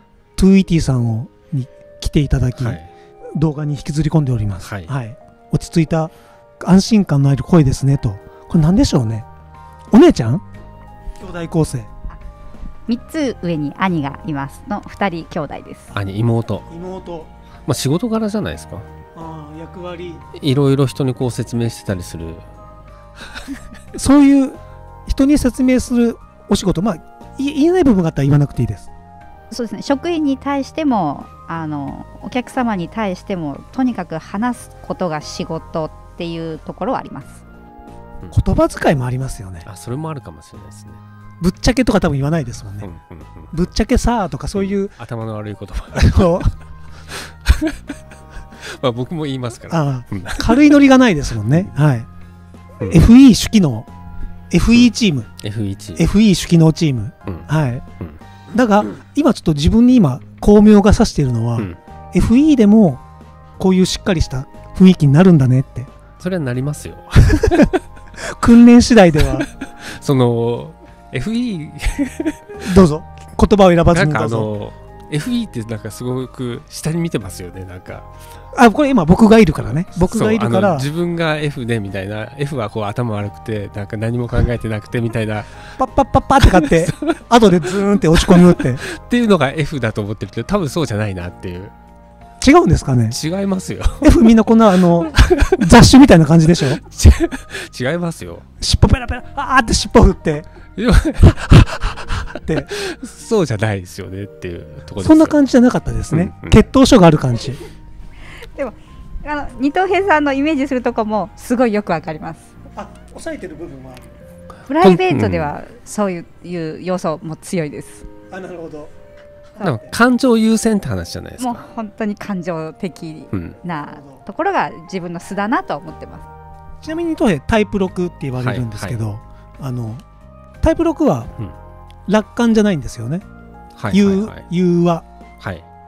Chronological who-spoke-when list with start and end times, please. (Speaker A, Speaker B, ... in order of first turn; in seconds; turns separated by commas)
Speaker A: 0.4-2.8, Speaker B: 2.6-2.9, Speaker A: 3.3-9.2, Speaker B: 4.6-4.9, Speaker A: 9.9-10.4, Speaker A: 11.2-11.9, Speaker C: 12.9-15.9, Speaker B: 15.9-16.7, Speaker A: 16.7-17.3, Speaker B: 17.7-18.9, Speaker A: 19.1-20.2, Speaker B: 20.3-22.4, Speaker A: 23.9-28.9, Speaker C: 29.5-37.4, Speaker A: 38.3-39.6, Speaker B: 39.6-41.0, Speaker A: 41.4-42.9, Speaker B: 42.8-43.5, Speaker A: 43.5-44.9, Speaker B: 44.5-46.4, Speaker A: 45.9-46.5, Speaker B: 47.1-47.7, Speaker B: 48.6-50.7, Speaker A: 49.7-52.1, Speaker A: 52.8-53.9, Speaker A: 54.5-55.3, Speaker B: 55.4-56.0, Speaker A: 56.0-57.8, Speaker A: 58.5-63.0, Speaker A: 63.6-65.9, Speaker B: 66.2-67.8, Speaker A: 67.3-67.7, Speaker A: 68.2-69.5, Speaker B: 69.3-72.8, Speaker A: 72.6-74.5, Speaker B: 73.9-78.1, Speaker A: 78.5-80.9, Speaker B: 79.8-85.7, Speaker A: 85.8-88.8, Speaker B: 86.4-87.2, Speaker B: 87.7-91.7, Speaker A: 92.4-93.2, Speaker B: 93.1-94.3, Speaker A: 94.0-96.8, Speaker B: 95.0-95.6, Speaker B: 96.5-98.4, Speaker A: 98.6-100.5, Speaker B: 100.8-105.4, Speaker A: 102.4-102.7, Speaker A: 105.0-107.6, Speaker B: 106.1-106.6, Speaker C: 108.5-112.5, Speaker A: 112.7-114.1, Speaker C: 114.7-118.1, Speaker B: 114.8-115.5, Speaker A: 118.3-118.9, Speaker A: 119.6-119.9, Speaker B: 119.6-121.6, Speaker C: 121.4-126.3, Speaker B: 123.3-123.6, Speaker A: 123.8-124.2, Speaker A: 126.8-130.0, Speaker B: 128.4-129.0, Speaker A: 130.6-131.3, Speaker A: 132.1-133.2, Speaker B: 133.8-134.4, Speaker A: 133.9-135.0